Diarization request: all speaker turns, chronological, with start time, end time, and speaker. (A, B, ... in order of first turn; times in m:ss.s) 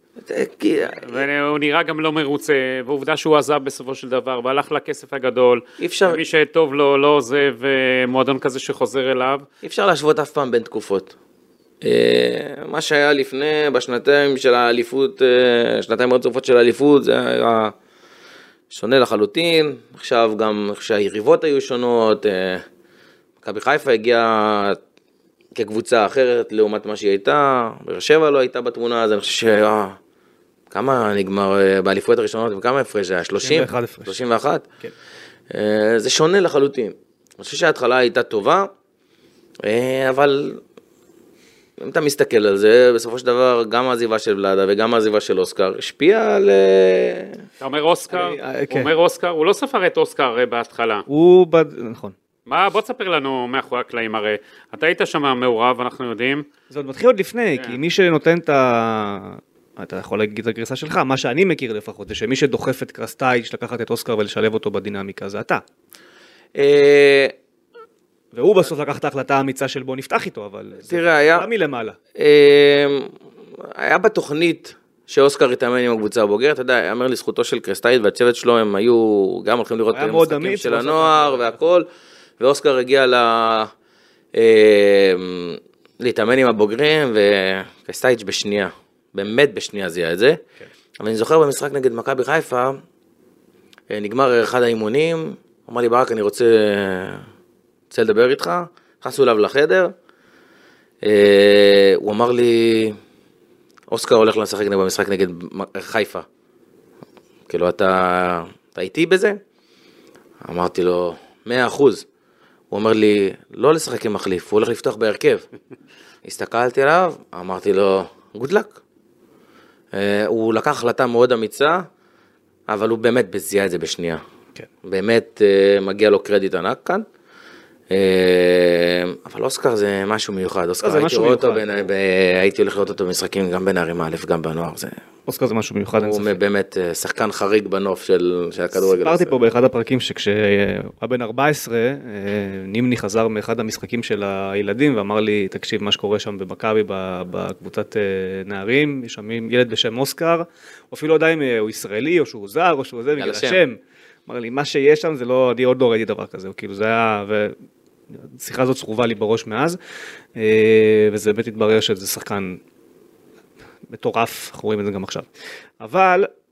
0:00.2-0:01.3 A
0:01.0-0:09.4 B
0:05.8-0:06.2 A
0:09.6-0:11.2 A
0:11.8-0:17.8 A
0:18.7-0:22.6 A
0:23.4-0:24.8 A
0:25.6-0:30.0 A
0:30.7-0:34.7 A
0:33.4-0:34.2 C
0:35.5-0:38.7 A
0:39.6-0:40.6 A
0:41.8-0:47.4 A
0:47.6-0:51.0 B
0:48.1-0:48.9 C
0:51.1-0:52.2 C
0:52.5-0:56.5 B
0:56.7-1:05.6 C
1:06.6-1:07.4 A
1:08.3-1:12.0 C
1:10.8-1:11.5 A
1:12.2-1:21.9 A
1:19.9-1:21.6 C
1:22.4-1:23.7 A
1:24.3-1:30.4 A
1:31.0-1:32.8 A
1:33.9-1:37.3 A
1:37.9-1:39.9 A
1:41.0-1:43.0 A
1:43.9-1:46.3 A
1:47.5-1:49.4 A
1:50.4-1:52.1 A
1:52.7-1:55.5 A
1:56.2-1:58.8 A
1:59.9-2:01.9 A
2:02.7-2:04.2 A
2:04.8-2:07.1 A
2:07.9-2:15.0 A
2:10.8-2:11.7 C
2:15.3-2:16.4 C
2:16.0-2:19.3 A
2:18.8-2:37.6 C
2:33.2-2:33.6 A
2:38.1-2:39.8 C
2:40.4-2:42.6 C
2:43.9-2:45.3 C
2:45.8-2:46.3 C